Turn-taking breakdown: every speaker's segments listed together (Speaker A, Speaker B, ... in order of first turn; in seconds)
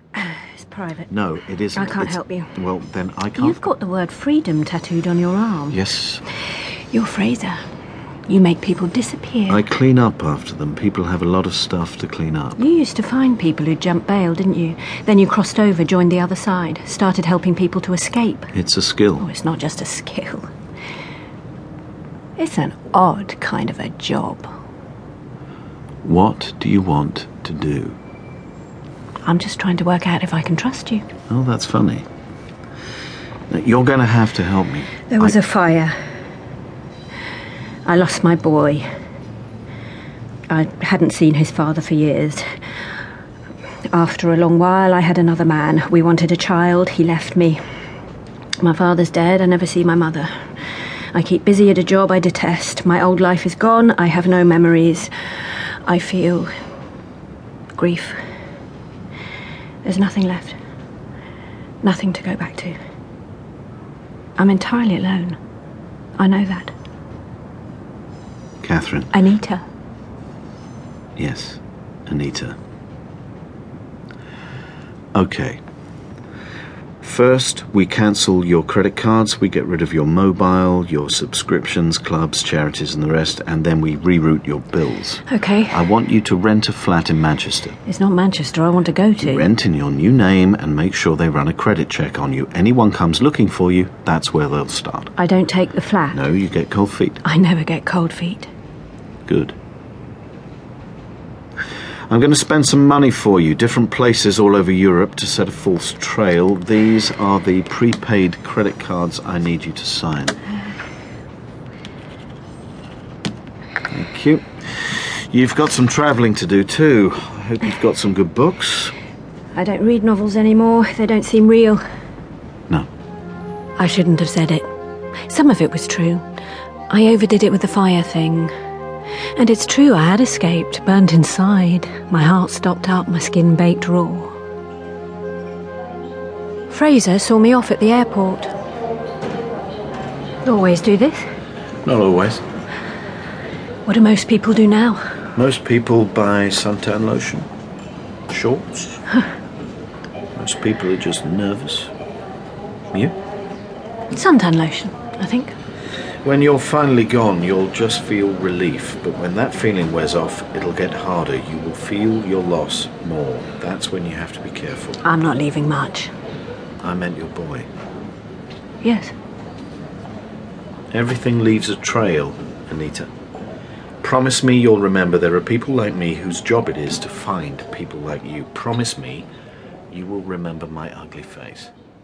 Speaker A: 0.1-1.1, 1.8-2.5, 3.4-5.8, 6.9-7.6, 8.3-9.6, 12.6-18.5, 19.2-20.5, 22.4-24.5, 29.2-31.1, 35.1-35.9, 37.8-38.8, 40.5-42.4, 43.9-47.6, 48.6-50.3, 51.1-55.1, 55.9-56.5, 57.7-58.1, 59.8-60.5, 61.8-62.8, 64.4-65.4, 66.2-66.7, 69.1-69.6, 85.3-85.8, 87.8-89.5, 95.2-96.2, 97.2-98.5, 119.5-121.8, 123.8-124.7, 125.3-126.2, 126.9-128.5, 129.3-134.3, 136.7-138.5, 140.4-141.2, 143.8-145.0, 154.1-155.5, 165.0-166.1, 168.8-169.1
Speaker B: 1.1-3.7, 5.7-6.2, 9.5-12.6, 18.5-19.2, 26.0-28.0, 31.3-32.0, 33.5-35.4, 68.6-69.1, 71.2-72.5, 75.1-75.6, 77.0-87.8, 89.2-95.1, 96.1-97.2, 99.3-99.5, 102.1-110.4, 113.9-118.9, 141.8-142.4, 145.3-147.5, 148.3-149.0, 150.3-151.9, 156.2-165.0, 166.8-167.7, 170.9-173.1, 174.0-179.3, 179.9-181.7